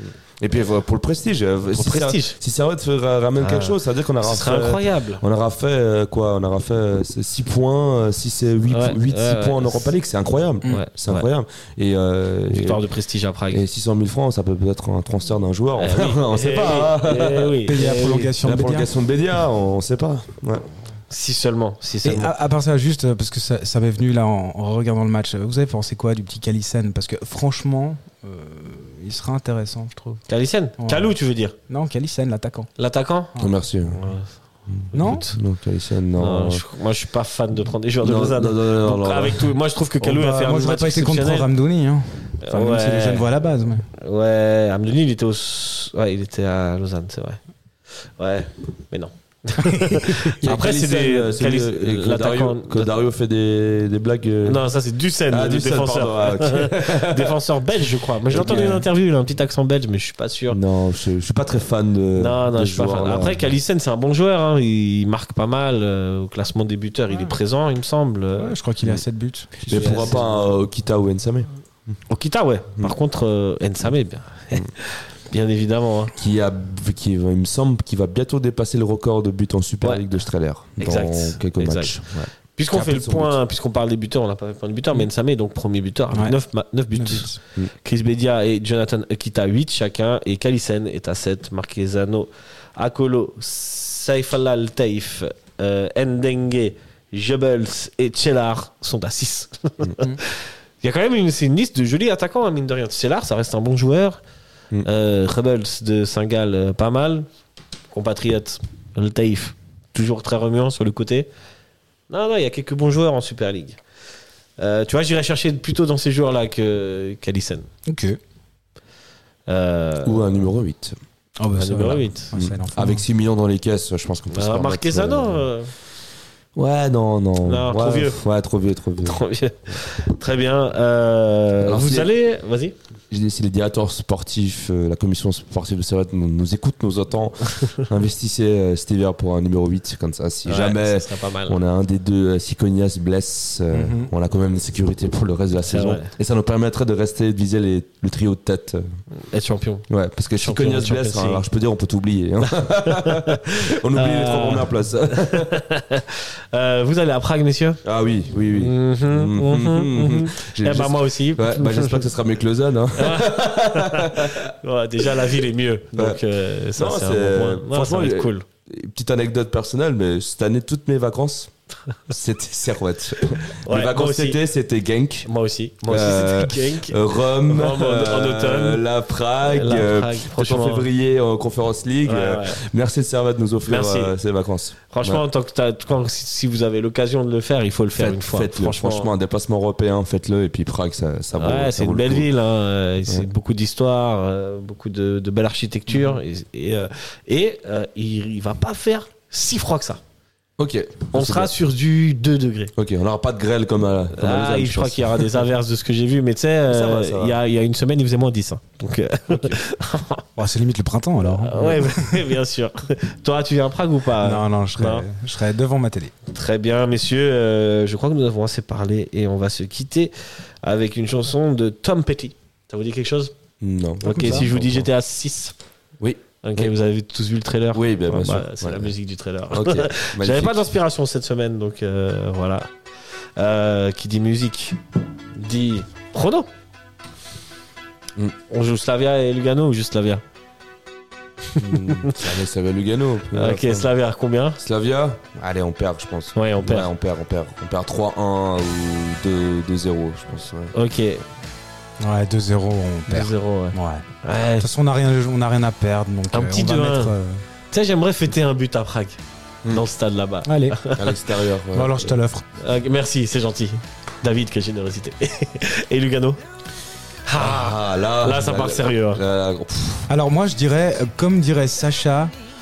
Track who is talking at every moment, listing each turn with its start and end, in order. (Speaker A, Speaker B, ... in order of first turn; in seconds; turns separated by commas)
Speaker A: 0.4-12.8, Speaker B: 1.7-2.4, Speaker B: 3.4-5.2, Speaker B: 8.7-9.9, Speaker B: 10.7-11.3, Speaker B: 12.5-13.6, Speaker A: 13.5-20.7, Speaker B: 15.8-18.4, Speaker C: 17.6-18.9, Speaker B: 21.1-22.3, Speaker C: 22.0-30.2, Speaker B: 30.3-31.5, Speaker C: 30.8-31.1, Speaker C: 31.7-32.7, Speaker B: 32.8-33.4, Speaker A: 33.4-34.1, Speaker B: 33.9-34.4, Speaker A: 34.7-36.6, Speaker B: 34.9-35.4, Speaker C: 34.9-35.3, Speaker B: 36.2-41.5, Speaker A: 38.0-39.5, Speaker C: 40.0-43.9, Speaker B: 42.5-43.3, Speaker B: 44.0-47.4, Speaker B: 48.0-52.9, Speaker A: 50.4-54.6, Speaker B: 54.4-60.6, Speaker A: 55.3-57.4, Speaker A: 58.3-58.9, Speaker A: 60.5-63.5, Speaker B: 62.1-68.5, Speaker C: 68.4-70.1, Speaker A: 69.6-71.5, Speaker B: 69.7-70.3, Speaker B: 72.1-76.1, Speaker A: 76.2-83.4, Speaker B: 80.8-82.0, Speaker B: 82.6-87.3, Speaker C: 86.1-86.4, Speaker C: 86.9-87.4, Speaker B: 87.8-104.2, Speaker B: 104.8-107.3, Speaker B: 107.9-111.3, Speaker B: 112.1-113.8, Speaker B: 114.6-117.7, Speaker C: 117.9-118.2, Speaker B: 119.5-120.2, Speaker A: 120.0-121.0, Speaker C: 121.4-123.0, Speaker B: 121.5-122.3, Speaker A: 122.3-125.5, Speaker B: 124.3-125.7, Speaker A: 126.6-129.2, Speaker B: 127.4-128.2, Speaker B: 129.1-132.8, Speaker A: 131.6-132.1, Speaker A: 133.1-148.8, Speaker B: 140.4-141.6, Speaker C: 143.7-144.1, Speaker B: 145.7-146.1, Speaker B: 149.2-151.4, Speaker A: 149.9-155.6, Speaker B: 152.6-157.8, Speaker A: 157.8-165.4, Speaker B: 158.6-162.1, Speaker B: 162.9-168.4, Speaker A: 166.0-166.2, Speaker A: 166.7-171.5, Speaker A: 172.1-175.3, Speaker B: 173.5-174.4, Speaker B: 175.2-178.8, Speaker A: 175.9-185.2, Speaker B: 179.4-180.9, Speaker B: 182.1-182.6, Speaker B: 183.7-184.2, Speaker B: 184.9-189.1, Speaker A: 188.0-192.3, Speaker B: 191.4-200.0, Speaker C: 195.9-196.2, Speaker A: 200.6-201.5, Speaker B: 201.1-202.7, Speaker A: 202.8-205.4, Speaker B: 204.2-210.2, Speaker A: 206.7-207.4, Speaker A: 209.3-209.6, Speaker C: 210.4-212.3, Speaker B: 211.4-215.1, Speaker C: 214.2-216.1, Speaker B: 216.3-223.3, Speaker A: 223.6-224.9, Speaker C: 224.0-224.5, Speaker B: 224.0-225.6, Speaker A: 226.0-226.7, Speaker B: 226.4-232.7, Speaker A: 227.7-228.9, Speaker A: 229.5-230.7, Speaker B: 233.4-234.8, Speaker B: 235.3-236.5, Speaker B: 238.5-240.2, Speaker A: 241.6-243.9, Speaker B: 241.7-242.2, Speaker B: 243.3-244.6, Speaker A: 244.6-250.7, Speaker B: 246.3-246.9, Speaker B: 250.7-251.2, Speaker C: 252.0-254.1, Speaker B: 253.1-254.7, Speaker C: 254.6-257.4, Speaker B: 256.3-257.1, Speaker B: 257.7-261.2, Speaker C: 260.4-260.8, Speaker A: 260.9-262.1, Speaker C: 261.7-262.4, Speaker B: 262.6-266.4, Speaker B: 267.2-269.2, Speaker A: 267.3-270.1, Speaker C: 270.1-272.3